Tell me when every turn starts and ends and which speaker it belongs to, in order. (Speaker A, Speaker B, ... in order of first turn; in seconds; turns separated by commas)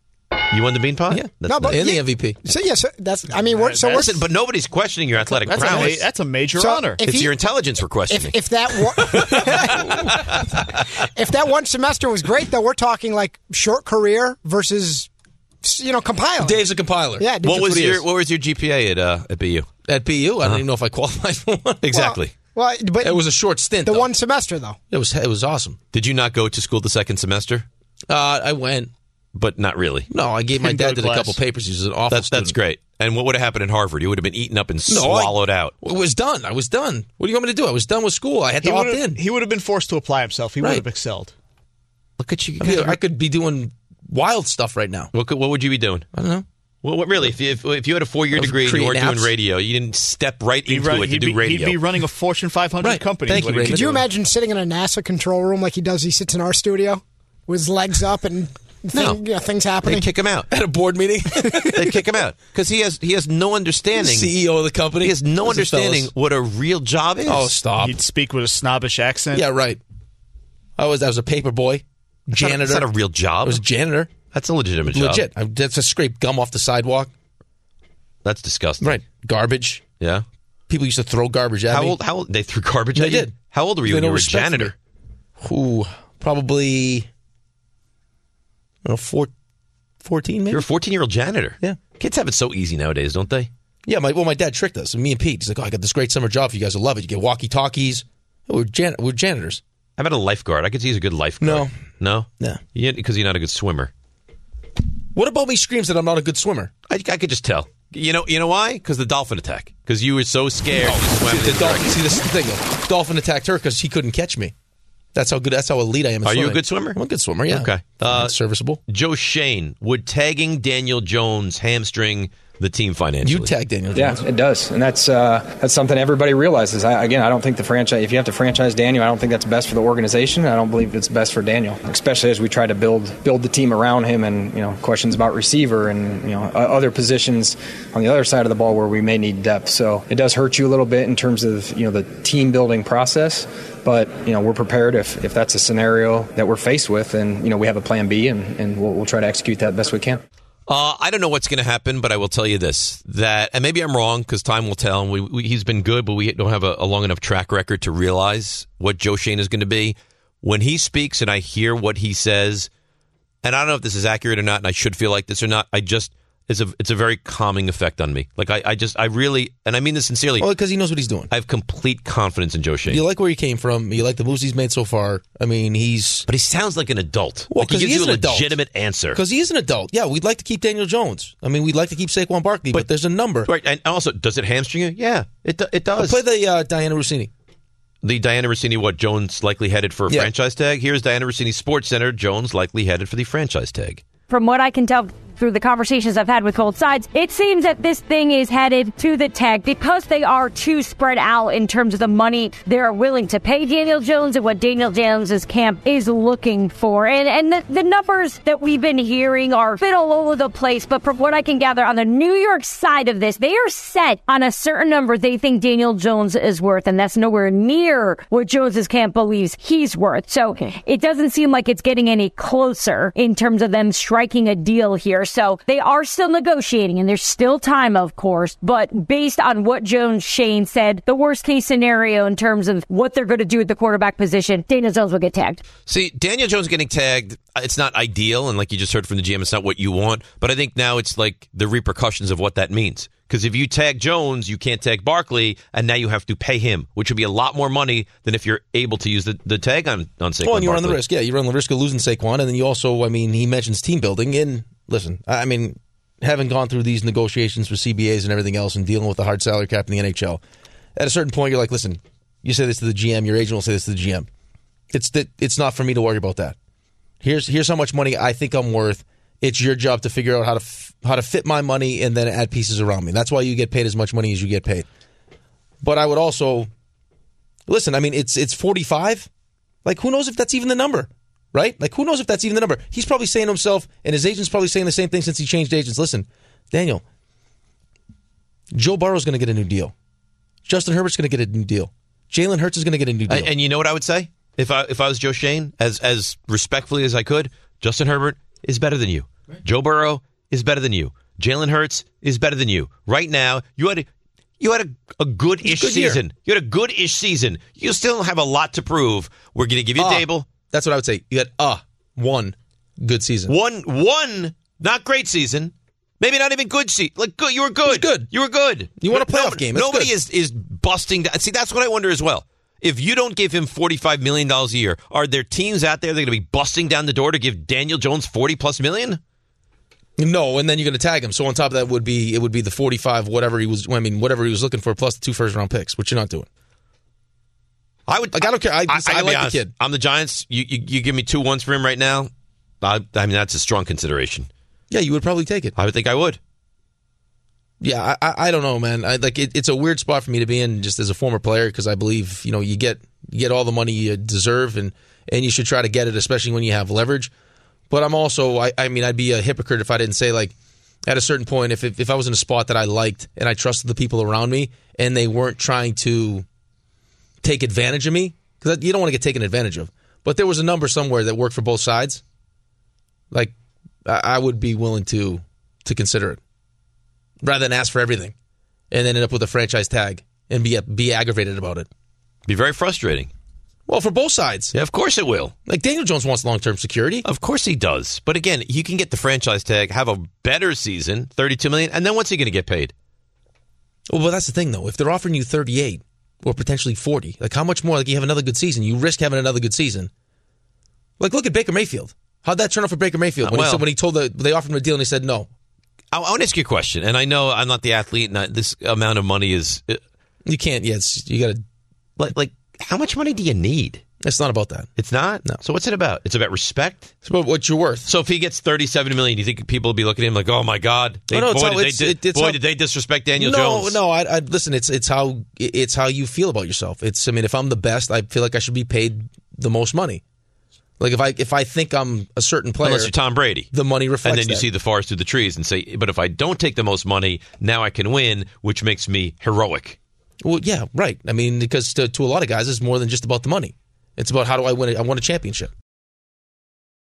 Speaker A: 0.5-1.8, Speaker B: 1.1-2.4, Speaker C: 1.5-4.2, Speaker D: 3.6-4.0, Speaker A: 3.8-6.0, Speaker D: 5.4-7.0, Speaker C: 5.5-7.3, Speaker A: 7.0-8.4, Speaker C: 8.1-10.5, Speaker A: 9.0-9.4, Speaker B: 9.2-10.1, Speaker C: 11.1-15.1, Speaker C: 15.6-16.6, Speaker B: 16.4-18.0, Speaker C: 17.2-17.9, Speaker A: 17.4-19.7, Speaker B: 19.9-21.8, Speaker A: 21.8-22.3, Speaker C: 21.9-23.3, Speaker B: 23.0-24.1, Speaker C: 23.8-24.8, Speaker B: 24.9-25.8, Speaker A: 25.9-27.6, Speaker B: 28.1-28.9, Speaker A: 29.3-30.1, Speaker B: 30.1-32.6, Speaker D: 30.6-31.4, Speaker A: 32.1-35.7, Speaker B: 34.9-39.2, Speaker D: 38.6-41.3, Speaker A: 42.2-43.0, Speaker B: 42.6-45.1, Speaker A: 45.1-46.1, Speaker B: 46.1-46.4, Speaker A: 46.8-51.8, Speaker B: 48.3-49.3, Speaker D: 50.7-54.0, Speaker B: 52.8-54.0, Speaker C: 53.7-60.1, Speaker A: 58.9-59.2, Speaker A: 59.8-60.5, Speaker B: 60.5-62.0, Speaker A: 61.7-64.3, Speaker B: 63.9-66.1, Speaker A: 65.0-67.5, Speaker B: 67.2-68.0, Speaker D: 67.7-69.5, Speaker B: 69.3-69.8, Speaker B: 70.8-72.9, Speaker A: 72.3-73.6, Speaker B: 73.4-74.1, Speaker A: 74.3-75.2, Speaker B: 74.8-77.1, Speaker A: 78.2-78.9, Speaker B: 78.8-79.8, Speaker B: 80.7-82.0, Speaker A: 81.7-84.7, Speaker B: 82.9-84.7, Speaker B: 85.4-87.1, Speaker B: 88.8-89.3, Speaker B: 90.0-90.6, Speaker A: 90.5-93.5, Speaker B: 93.8-99.6, Speaker A: 100.0-103.9, Speaker B: 101.4-101.7, Speaker B: 105.1-106.7, Speaker A: 106.9-112.0, Speaker B: 110.8-114.5, Speaker B: 115.1-118.8, Speaker A: 116.2-117.0, Speaker A: 117.5-118.3, Speaker A: 118.9-123.5, Speaker B: 123.2-124.2, Speaker E: 123.9-150.2, Speaker A: 150.7-162.7, Speaker A: 163.4-170.5, Speaker B: 170.4-171.3, Speaker A: 171.3-173.0, Speaker B: 172.9-176.2, Speaker A: 176.3-179.2, Speaker B: 177.5-178.5, Speaker B: 179.1-183.5, Speaker A: 183.4-186.2, Speaker B: 186.0-187.3, Speaker A: 188.0-194.0, Speaker F: 194.3-235.6, Speaker A: 235.8-251.0, Speaker B: 250.4-260.4, Speaker B: 260.9-264.3, Speaker B: 264.9-266.6, Speaker B: 267.2-274.9, Speaker B: 275.8-276.7, Speaker B: 277.7-279.3, Speaker B: 279.8-287.0, Speaker B: 288.7-289.9, Speaker B: 290.6-293.5, Speaker A: 293.3-304.1, Speaker A: 304.6-310.5, Speaker B: 305.6-306.2, Speaker B: 310.0-313.5, Speaker A: 313.5-329.2, Speaker B: 317.8-318.3, Speaker B: 319.0-320.1, Speaker B: 330.2-336.5, Speaker A: 338.1-342.3, Speaker B: 338.3-339.7, Speaker A: 342.8-344.5, Speaker B: 344.9-345.7, Speaker A: 345.8-346.4, Speaker B: 347.8-357.3, Speaker B: 357.9-360.5, Speaker B: 361.1-366.4, Speaker B: 367.4-372.2, Speaker B: 374.1-376.4, Speaker B: 377.4-378.3, Speaker B: 378.9-381.9, Speaker A: 382.5-383.3, Speaker B: 383.9-384.7, Speaker A: 384.7-385.5, Speaker B: 385.7-387.2, Speaker A: 387.2-392.9, Speaker B: 394.1-400.1, Speaker B: 401.2-405.5, Speaker A: 403.4-403.8, Speaker A: 406.1-410.0, Speaker B: 410.4-411.6, Speaker A: 412.2-414.0, Speaker B: 414.2-414.9, Speaker A: 415.0-417.1, Speaker B: 417.2-418.1, Speaker A: 418.1-424.0, Speaker B: 421.3-422.6, Speaker B: 423.4-430.2, Speaker B: 431.0-433.1, Speaker A: 432.8-433.7, Speaker B: 433.7-434.6, Speaker A: 434.2-440.0, Speaker B: 440.4-445.7